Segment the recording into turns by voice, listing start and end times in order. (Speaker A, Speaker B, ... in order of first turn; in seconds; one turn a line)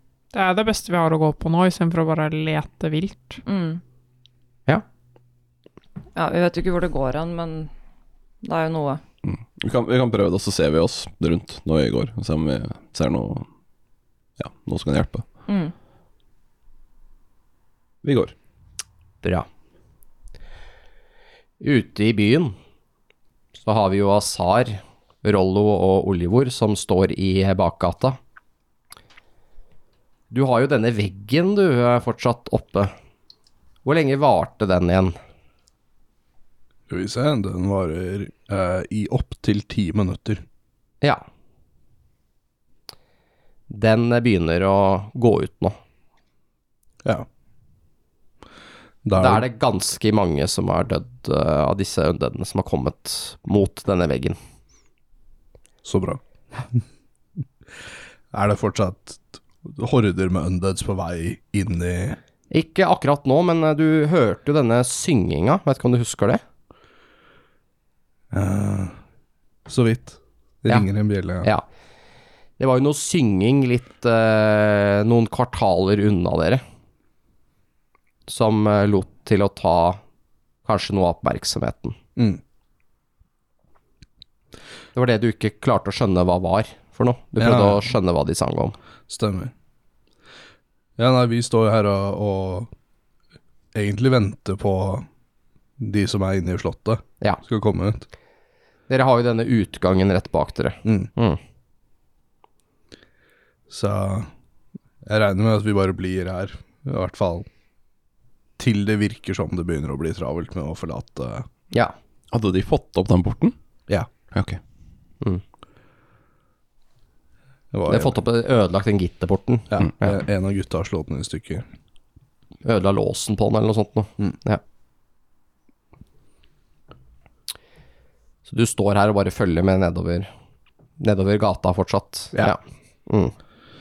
Speaker A: 0.3-3.4
Speaker B: 3.5-3.8
Speaker B: 6.1-7.7
Speaker B: 8.4-9.0
Speaker C: 9.2-13.4
Speaker C: 14.4-15.2
Speaker B: 15.5-15.7
Speaker C: 18.0-18.3
Speaker D: 19.2-19.5
Speaker D: 21.6-22.6
Speaker D: 23.6-28.2
Speaker D: 30.3-32.9
Speaker D: 33.9-35.2
Speaker E: 36.9-40.4
Speaker D: 43.7-45.8
Speaker E: 49.0-49.4
Speaker D: 49.2-54.4
Speaker E: 55.8-56.2
Speaker E: 58.3-62.2
Speaker D: 62.5-66.4
Speaker E: 68.3-69.0
Speaker E: 69.7-71.5
Speaker D: 72.6-76.6
Speaker D: 78.3-80.0
Speaker D: 80.6-82.0
Speaker E: 82.2-82.4
Speaker D: 84.9-88.8
Speaker E: 87.4-87.8
Speaker E: 89.1-89.5
Speaker E: 91.0-92.7
Speaker E: 93.8-95.1
Speaker E: 95.8-98.1
Speaker D: 98.9-101.4
Speaker E: 103.7-104.3
Speaker E: 105.0-107.5
Speaker E: 108.6-111.5
Speaker C: 112.3-113.5
Speaker C: 114.3-114.6
Speaker E: 117.7-118.2
Speaker D: 117.9-120.1
Speaker E: 119.7-121.7
Speaker D: 122.6-124.6
Speaker D: 128.5-130.3
Speaker D: 131.0-133.3